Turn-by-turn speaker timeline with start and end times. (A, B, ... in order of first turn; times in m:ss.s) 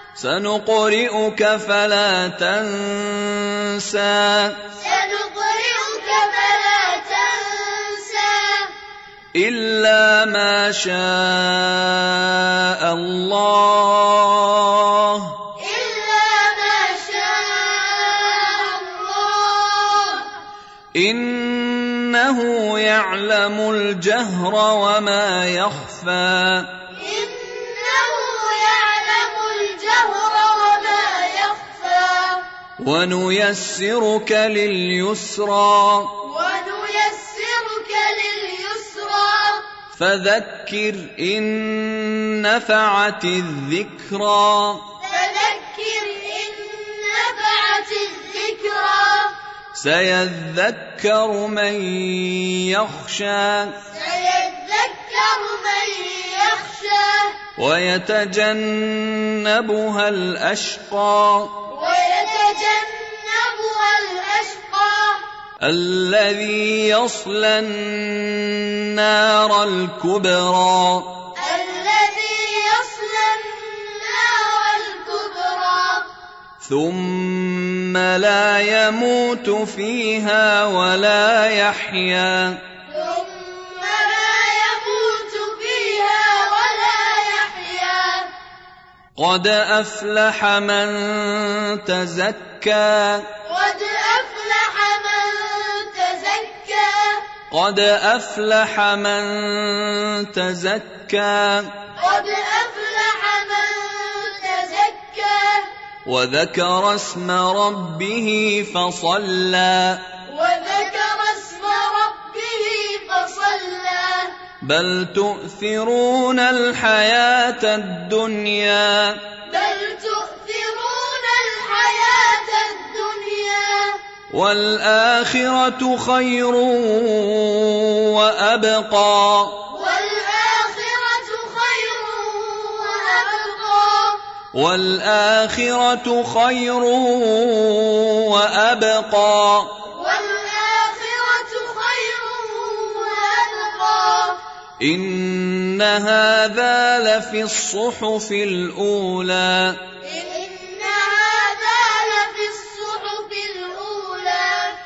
0:00.2-0:04.6 A
0:04.7-0:08.7 B
0:09.3-0:15.4 A
0:15.5-0:20.3 B
0:20.9-0:26.8 A
0:26.9-0:32.4 B
0:32.8-0:36.2 A
0:36.2-0:39.7 B
0:39.9-0:44.9 A
0:45.0-0:49.4 B
0:49.7-0:53.8 A
0:53.8-0:57.4 B
0:57.5-1:01.7 A
1:01.7-1:05.2 B
1:05.6-1:11.3 A
1:11.3-1:16.1 B
1:16.6-1:22.6 A
1:22.9-1:28.3 B
1:29.2-1:33.3 A
1:33.4-1:37.3 B
1:37.5-1:41.9 A
1:41.9-1:45.7 B
1:46.0-1:50.2 A
1:50.2-1:54.4 B
1:54.6-1:59.3 A
1:59.4-2:04.0 B
2:04.3-2:09.7 A
2:09.7-2:14.2 B
2:14.5-2:19.8 A
2:19.8-2:24.4 B
2:24.8-2:29.9 A
2:30.0-2:34.8 B